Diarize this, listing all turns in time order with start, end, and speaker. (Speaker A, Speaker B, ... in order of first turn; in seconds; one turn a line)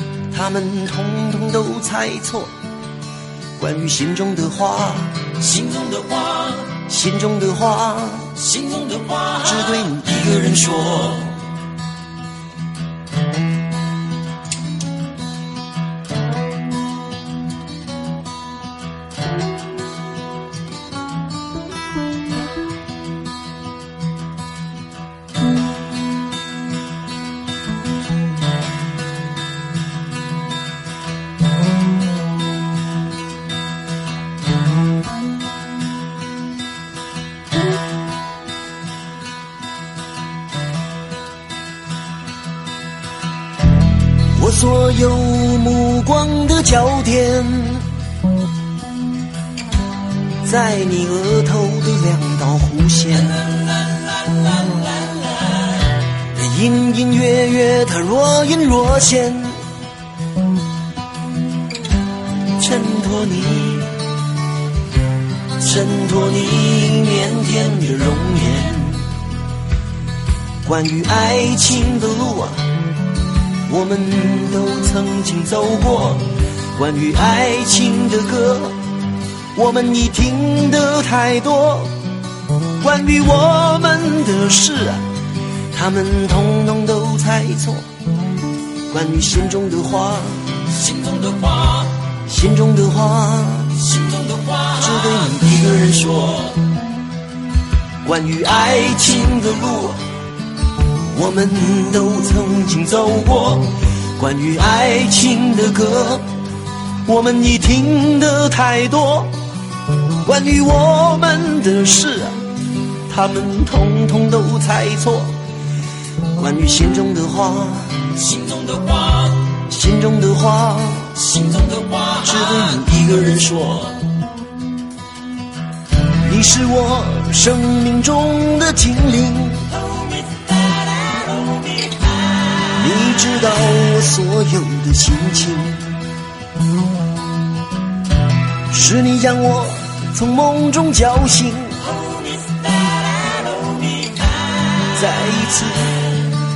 Speaker A: 0.3-2.5
Speaker A: 3.6-11.4
Speaker A: 44.3-47.9
Speaker A: 50.4-53.7
Speaker A: 54.6-54.9
Speaker A: 56.4-59.6
Speaker A: 62.6-64.0
Speaker A: 65.6-69.1
Speaker A: 70.6-72.6
Speaker A: 73.7-78.8
Speaker A: 79.5-81.9
Speaker A: 82.8-85.0
Speaker A: 85.7-87.8
Speaker A: 88.9-96.7
Speaker A: 98.0-100.0
Speaker A: 101.1-106.2
Speaker A: 107.1-109.3
Speaker A: 110.2-112.3
Speaker A: 113.1-115.3
Speaker A: 116.3-124.0
Speaker A: 126.2-129.9
Speaker A: 132.5-135.9
Speaker A: 138.7-141.9
Speaker A: 144.9-146.2